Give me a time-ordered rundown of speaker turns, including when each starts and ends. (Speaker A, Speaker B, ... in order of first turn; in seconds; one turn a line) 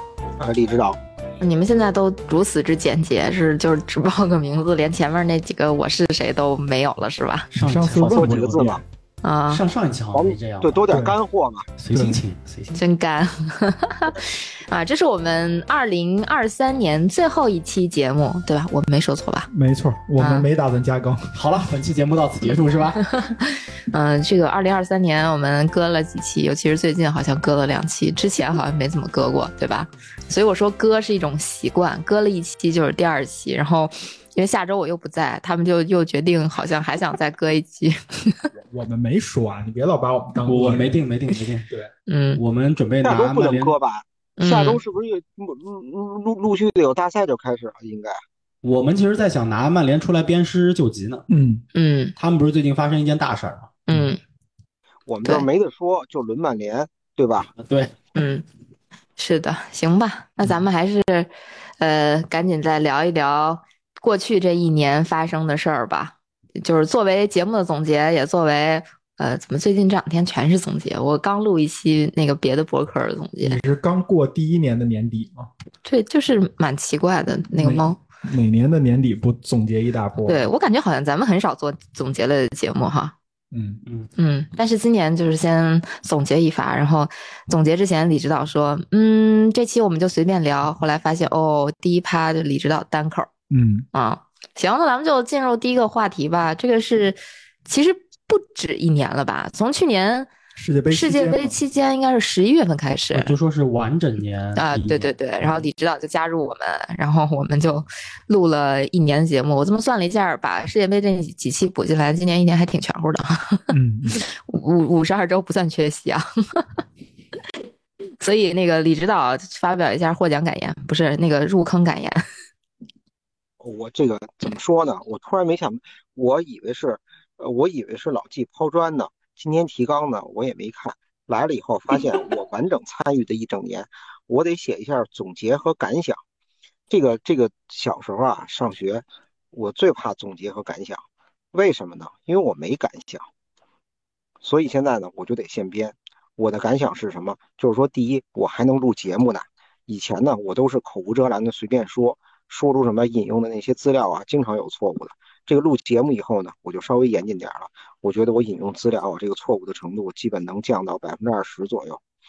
Speaker A: 0.4-1.0
Speaker B: 1.4-7.5
Speaker C: 7.5-8.8
Speaker D: 7.5-8.8
Speaker A: 8.1-8.8
Speaker B: 9.2-9.6
Speaker C: 9.5-11.0
Speaker A: 10.1-11.7
Speaker D: 10.9-11.2
Speaker C: 11.8-12.8
Speaker D: 11.9-12.2
Speaker B: 12.8-19.5
Speaker D: 19.5-21.4
Speaker B: 20.2-20.5
Speaker C: 21.4-23.1
Speaker B: 23.2-38.5
Speaker D: 38.6-41.0
Speaker C: 40.4-41.7
Speaker B: 42.1-42.4
Speaker C: 42.4-43.8
Speaker A: 43.0-48.2
Speaker B: 44.4-44.8
Speaker C: 48.6-51.3
Speaker D: 51.3-51.6
Speaker B: 51.8-52.1
Speaker C: 52.2-53.8
Speaker B: 53.9-54.2
Speaker A: 55.1-57.5
Speaker C: 57.6-58.0
Speaker B: 58.1-58.5
Speaker B: 59.2-73.6
Speaker D: 73.4-75.5
Speaker B: 75.8-78.0
Speaker D: 77.5-80.5
Speaker B: 80.3-83.1
Speaker D: 83.5-83.8
Speaker B: 84.2-93.3
Speaker D: 93.5-93.9
Speaker B: 93.9-100.3
Speaker D: 100.6-101.5
Speaker B: 100.9-103.3
Speaker C: 103.1-105.1
Speaker B: 104.6-116.6
Speaker D: 113.7-114.2
Speaker B: 118.2-122.2
Speaker A: 123.6-136.2
Speaker A: 136.9-141.0
Speaker A: 141.5-143.3
Speaker A: 144.4-162.0